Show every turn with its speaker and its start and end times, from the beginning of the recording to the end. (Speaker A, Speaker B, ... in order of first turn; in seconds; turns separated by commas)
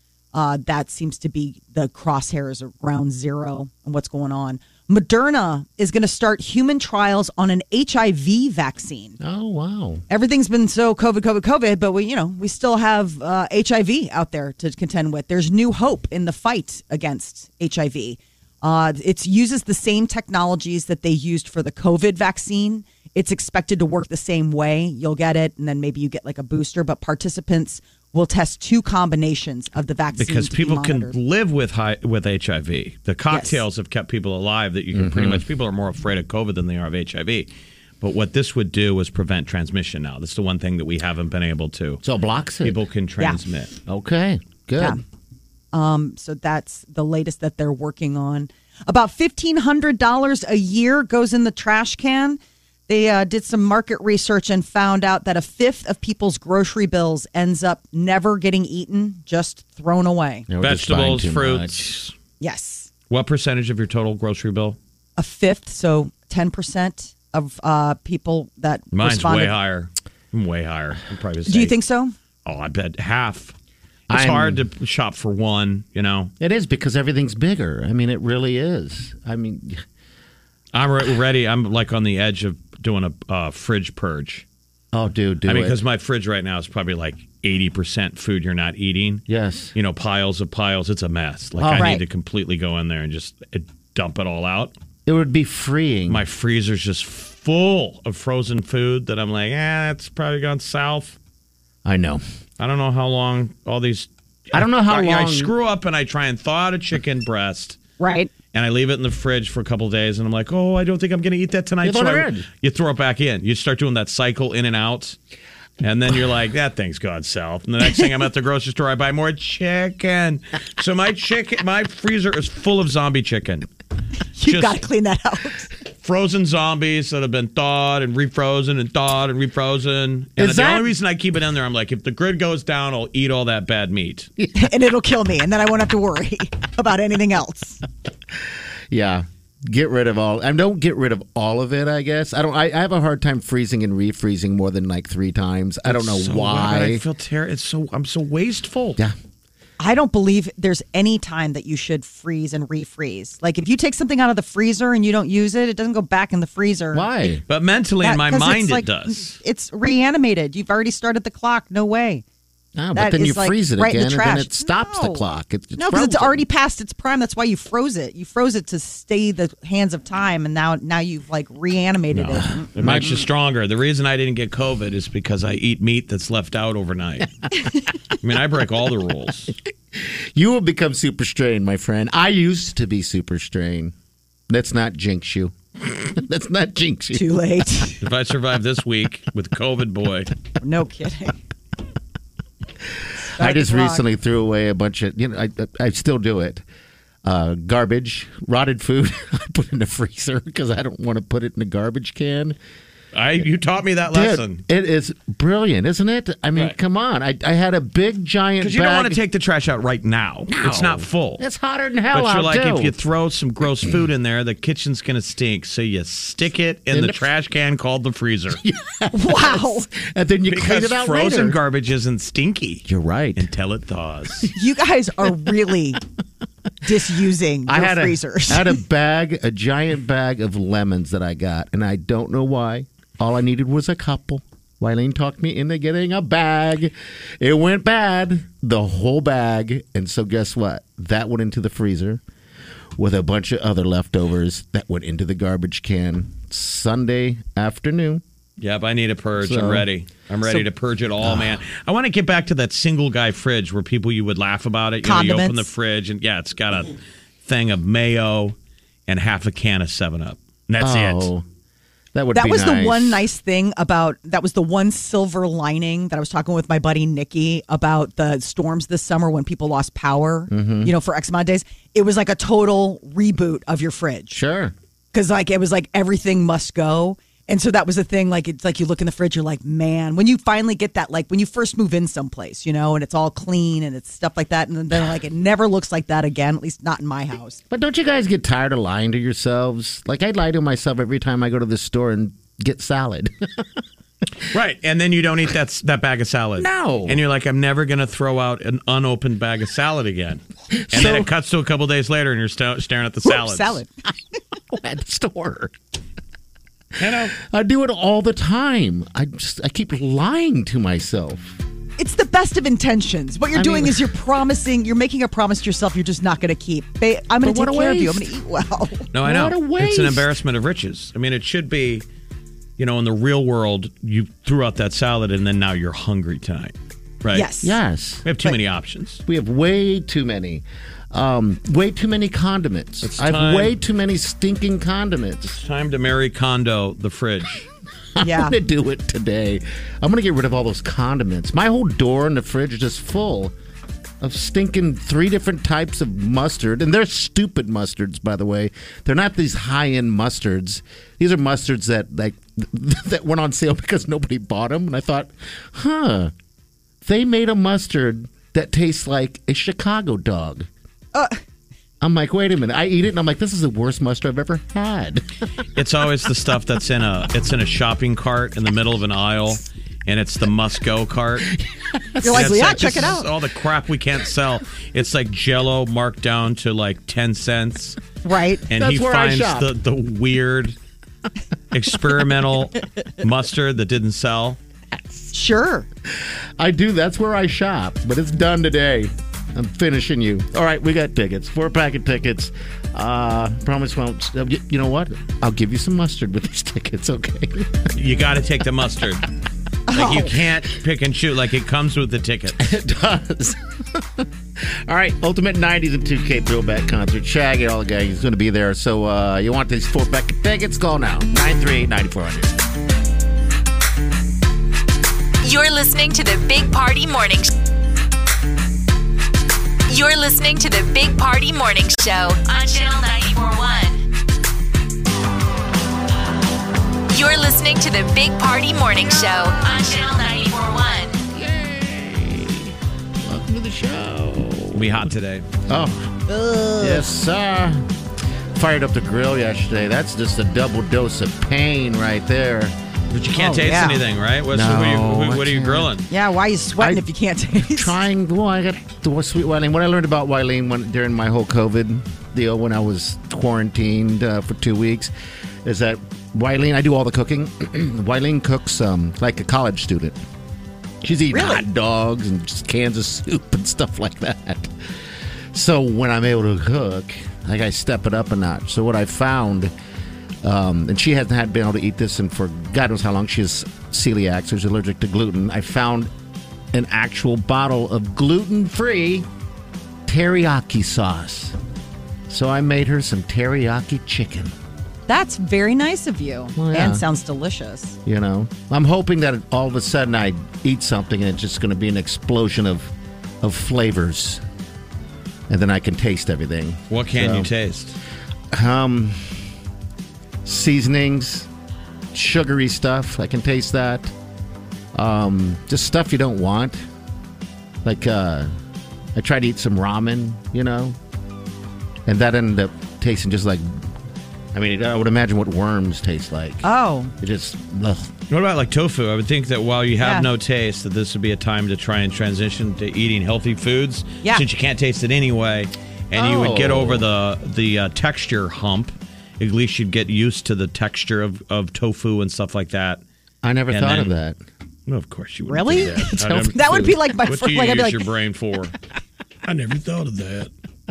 Speaker A: 0.3-9.2, Speaker B: 9.2-10.0, Speaker A: 10.1-31.1, Speaker C: 30.2-37.5, Speaker A: 33.3-33.6, Speaker B: 34.9-35.4, Speaker C: 38.0-42.0, Speaker B: 42.0-42.8, Speaker C: 42.6-43.7, Speaker B: 43.9-45.0, Speaker A: 45.7-60.5, Speaker B: 60.5-61.9, Speaker C: 60.6-62.1, Speaker A: 62.4-62.9, Speaker C: 63.1-64.8, Speaker A: 65.2-69.5, Speaker C: 68.9-71.8, Speaker A: 71.5-72.1, Speaker C: 72.4-73.5, Speaker C: 74.1-76.3, Speaker B: 74.1-74.6, Speaker B: 76.4-79.8, Speaker C: 80.7-84.4, Speaker B: 84.9-85.8, Speaker C: 85.4-89.2, Speaker B: 89.3-89.7, Speaker C: 89.7-94.7, Speaker B: 91.6-92.0, Speaker A: 91.7-92.0, Speaker B: 95.0-96.2, Speaker C: 96.1-101.2, Speaker B: 101.8-102.2, Speaker C: 102.6-107.8, Speaker B: 104.5-105.5, Speaker A: 108.0-108.3, Speaker C: 108.5-115.2, Speaker B: 111.8-112.5, Speaker C: 115.8-123.7, Speaker A: 124.4-125.7, Speaker C: 124.5-124.8, Speaker C: 126.0-134.3, Speaker B: 130.4-130.9, Speaker B: 134.4-134.7, Speaker A: 134.5-137.8, Speaker B: 138.4-147.0, Speaker C: 145.9-149.0, Speaker A: 149.8-157.1, Speaker B: 156.9-157.4, Speaker C: 157.5-159.4, Speaker A: 158.0-162.2, Speaker B: 162.8-166.4, Speaker A: 162.9-165.2, Speaker A: 165.8-172.7, Speaker C: 172.1-177.3, Speaker B: 172.7-173.3, Speaker C: 178.1-179.5, Speaker B: 179.9-183.9, Speaker B: 184.5-187.4, Speaker A: 187.1-188.0, Speaker C: 188.0-190.3, Speaker A: 190.6-191.3, Speaker B: 193.0-196.6, Speaker A: 193.2-194.0, Speaker B: 197.2-202.6, Speaker C: 203.1-204.6, Speaker B: 204.1-209.2, Speaker C: 208.6-211.4, Speaker B: 210.5-212.9, Speaker C: 212.1-218.6, Speaker B: 216.9-217.3, Speaker B: 218.5-221.6, Speaker A: 219.1-219.8, Speaker C: 220.5-224.5, Speaker B: 222.8-223.5, Speaker A: 224.5-226.0, Speaker A: 226.8-228.8, Speaker B: 227.7-242.2, Speaker B: 242.9-248.2, Speaker C: 248.6-258.5, Speaker B: 249.4-249.9, Speaker B: 251.2-251.6, Speaker A: 255.0-255.7, Speaker C: 259.1-261.3, Speaker B: 260.8-261.4, Speaker B: 262.1-263.2, Speaker A: 262.3-274.4, Speaker B: 270.5-270.9, Speaker B: 274.3-274.7, Speaker A: 275.1-287.6, Speaker B: 287.7-293.7, Speaker C: 294.5-303.8, Speaker B: 296.6-297.2, Speaker B: 300.7-301.3, Speaker A: 303.2-303.9, Speaker B: 304.7-305.7, Speaker C: 307.0-307.4, Speaker B: 307.0-311.6, Speaker A: 312.0-319.1, Speaker B: 313.5-314.1, Speaker B: 317.4-318.3, Speaker C: 319.1-322.1, Speaker B: 319.2-320.3, Speaker C: 322.8-327.5, Speaker A: 327.3-327.8, Speaker B: 327.6-328.3, Speaker C: 328.2-329.2, Speaker B: 329.2-335.6, Speaker C: 333.0-333.8, Speaker C: 335.6-337.7, Speaker B: 338.1-343.5, Speaker A: 338.2-338.6, Speaker B: 344.2-356.3, Speaker B: 357.0-360.7, Speaker A: 361.1-361.4, Speaker B: 362.0-365.2, Speaker C: 365.8-371.5, Speaker B: 371.6-372.6, Speaker A: 372.2-373.3, Speaker C: 372.2-378.0, Speaker A: 378.2-378.6, Speaker C: 378.7-380.8, Speaker B: 378.7-379.7, Speaker C: 381.7-384.6, Speaker B: 384.9-385.3, Speaker A: 385.3-385.9, Speaker B: 386.1-397.9, Speaker C: 397.9-399.3, Speaker A: 399.9-400.3, Speaker C: 399.9-402.7, Speaker B: 402.6-412.6, Speaker D: 415.4-417.5, Speaker D: 419.9-424.0, Speaker D: 427.1-431.2, Speaker B: 431.3-435.1, Speaker C: 434.7-435.4, Speaker B: 435.7-437.9, Speaker A: 436.8-437.1, Speaker B: 438.5-442.7, Speaker C: 443.1-446.1, Speaker A: 443.4-444.0, Speaker B: 444.5-445.9, Speaker A: 446.1-447.9, Speaker B: 446.8-455.1, Speaker B: 455.6-460.2, Speaker B: 461.0-469.7, Speaker A: 461.3-461.6, Speaker B: 470.4-476.1, Speaker B: 476.7-479.3, Speaker B: 480.1-481.6, Speaker B: 482.3-484.5, Speaker A: 485.1-488.0, Speaker B: 486.6-487.0, Speaker B: 488.1-494.4, Speaker B: 495.5-497.5, Speaker C: 496.9-498.0, Speaker B: 498.5-499.4, Speaker B: 500.4-501.5, Speaker B: 502.1-504.1, Speaker B: 504.9-506.8, Speaker B: 507.8-508.5, Speaker B: 509.1-510.9, Speaker B: 512.0-513.6, Speaker B: 514.5-516.7, Speaker A: 516.6-517.1, Speaker B: 517.2-518.1, Speaker C: 518.3-533.0, Speaker A: 520.0-520.3, Speaker B: 526.1-527.1, Speaker B: 533.4-534.4, Speaker C: 533.7-534.1, Speaker C: 534.9-538.8, Speaker A: 535.5-538.0, Speaker B: 536.1-536.5, Speaker C: 539.4-540.5